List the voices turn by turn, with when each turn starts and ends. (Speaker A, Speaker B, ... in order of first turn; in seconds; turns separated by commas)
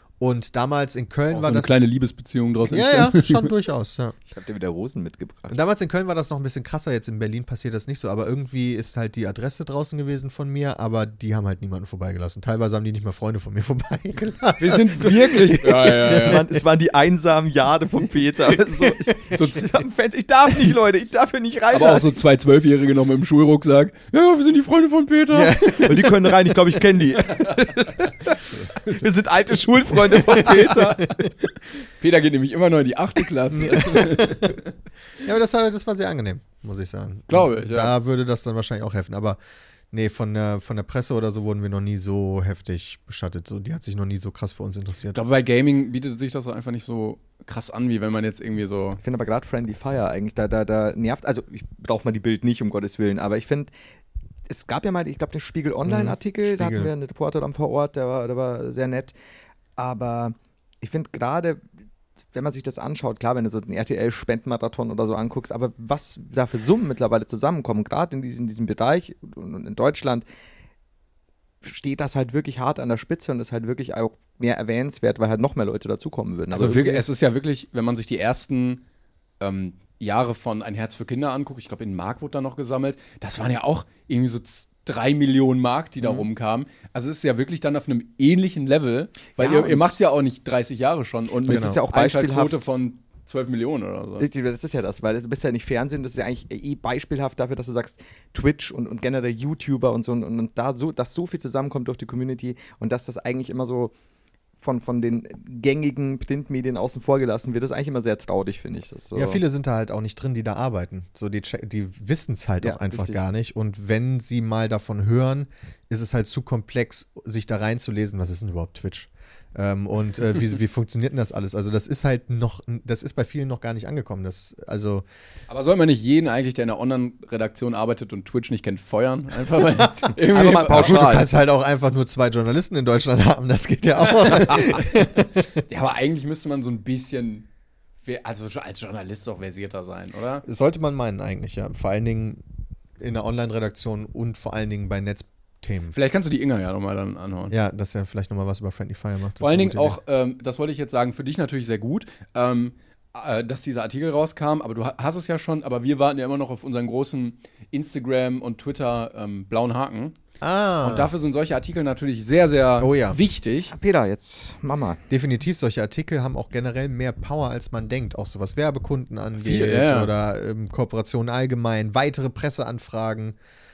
Speaker A: 0.2-1.8, Speaker B: 1.3-3.5, Speaker A: 2.6-4.1, Speaker C: 4.3-5.6, Speaker A: 5.5-16.5, Speaker B: 14.6-16.4, Speaker C: 15.9-22.2, Speaker B: 19.3-19.7, Speaker B: 21.7-26.3, Speaker A: 25.3-25.9, Speaker C: 25.8-31.3, Speaker B: 27.2-27.7, Speaker B: 28.5-29.0, Speaker B: 30.1-31.1, Speaker B: 32.0-34.6, Speaker A: 33.5-34.6, Speaker A: 35.2-39.4, Speaker B: 37.3-37.9, Speaker A: 39.9-45.2, Speaker B: 45.1-49.0, Speaker C: 49.0-53.7, Speaker C: 54.5-59.1, Speaker A: 55.9-56.9, Speaker C: 59.8-61.6, Speaker C: 62.3-70.2, Speaker C: 71.6-77.0, Speaker B: 76.5-78.8, Speaker B: 79.4-94.3, Speaker C: 89.4-90.0, Speaker C: 91.4-92.5, Speaker A: 91.5-91.8, Speaker C: 94.2-103.9, Speaker C: 104.6-109.4, Speaker A: 109.1-125.0, Speaker C: 112.6-113.2, Speaker B: 125.5-131.2, Speaker A: 130.0-135.4, Speaker C: 130.2-131.3, Speaker B: 134.1-135.0, Speaker B: 135.5-137.5, Speaker B: 138.0-140.4, Speaker A: 140.4-142.4, Speaker A: 143.0-145.9, Speaker B: 145.9-147.5, Speaker A: 147.5-150.0, Speaker B: 149.4-160.2, Speaker A: 160.4-161.1, Speaker B: 160.8-163.7, Speaker A: 162.8-163.2, Speaker C: 163.7-165.0, Speaker A: 165.1-173.3, Speaker B: 169.4-170.1